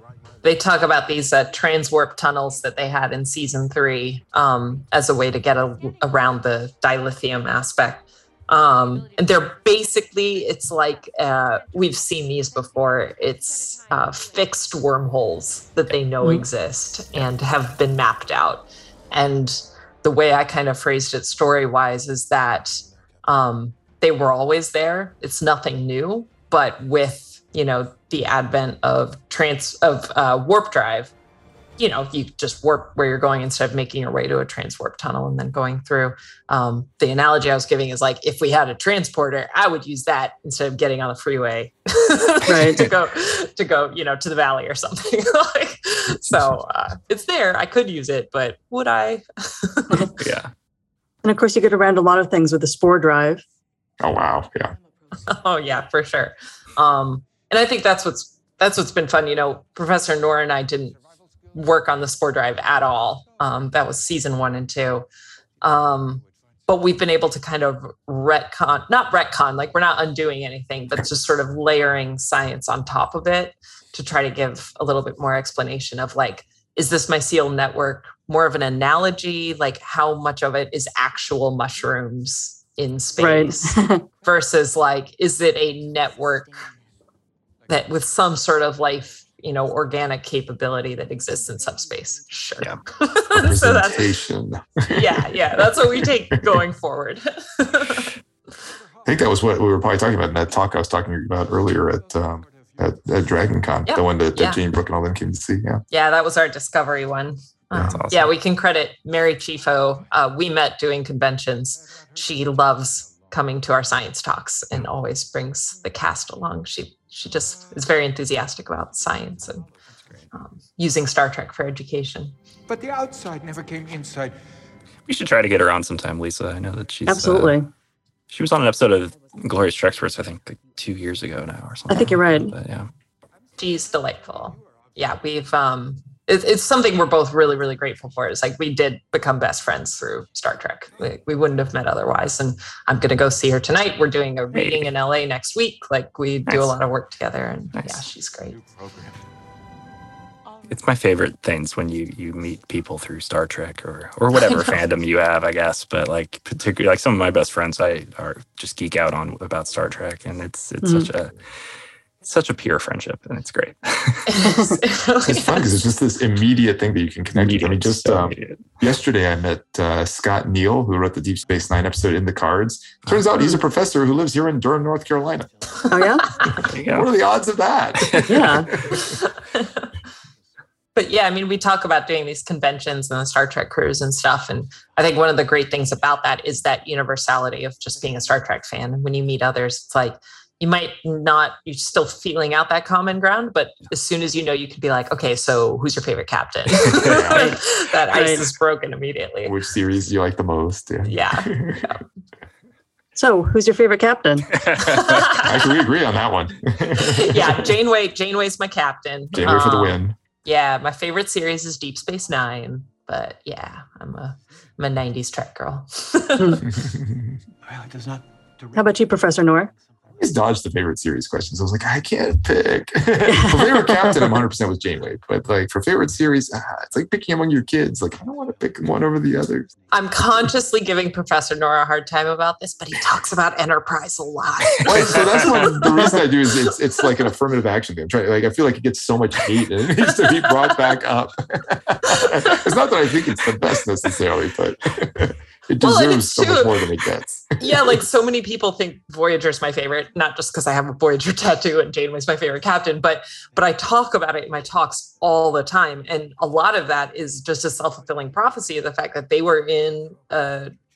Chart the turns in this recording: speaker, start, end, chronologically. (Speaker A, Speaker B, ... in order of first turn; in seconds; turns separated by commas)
Speaker A: 0.4-31.1, Speaker A: 31.8-50.1, Speaker B: 42.5-42.9, Speaker C: 50.2-50.5, Speaker B: 51.2-53.4, Speaker D: 54.0-54.7, Speaker A: 55.3-60.9, Speaker A: 61.5-65.0, Speaker A: 65.6-86.5, Speaker B: 83.2-84.0, Speaker A: 87.7-94.2, Speaker D: 93.3-96.5, Speaker A: 94.9-98.1, Speaker D: 99.0-105.8, Speaker A: 103.8-104.6, Speaker A: 105.9-119.7, Speaker D: 107.7-108.0, Speaker C: 107.9-108.3, Speaker A: 120.3-122.3, Speaker E: 122.7-124.3, Speaker C: 125.1-127.5, Speaker B: 127.1-127.7, Speaker C: 128.3-132.9, Speaker B: 131.9-132.5, Speaker A: 133.6-148.6, Speaker C: 144.5-144.9, Speaker C: 146.5-146.7, Speaker E: 148.6-149.2, Speaker C: 150.7-161.3, Speaker A: 154.3-154.8, Speaker B: 160.8-161.1, Speaker C: 162.2-164.3, Speaker A: 164.3-165.7, Speaker D: 165.2-175.5, Speaker C: 167.3-168.6, Speaker C: 173.1-173.5, Speaker B: 175.9-176.4, Speaker C: 176.6-177.1, Speaker D: 176.8-178.3, Speaker C: 178.1-178.7, Speaker B: 178.3-178.7, Speaker A: 178.9-179.7, Speaker A: 180.9-199.5, Speaker D: 196.9-197.6, Speaker B: 198.1-198.5, Speaker D: 199.4-201.8, Speaker A: 201.1-202.0, Speaker B: 203.2-204.5, Speaker C: 204.6-205.2, Speaker A: 204.8-205.7, Speaker D: 205.3-207.7, Speaker A: 207.0-216.6, Speaker D: 209.3-210.2, Speaker D: 216.6-217.4, Speaker E: 217.7-218.8, Speaker B: 218.7-219.7, Speaker D: 220.2-229.7, Speaker B: 223.2-224.4, Speaker A: 229.9-236.7, Speaker D: 234.8-248.0, Speaker C: 235.2-235.8, Speaker A: 240.1-240.8, Speaker A: 242.1-242.6, Speaker A: 245.8-246.8, Speaker A: 247.6-260.7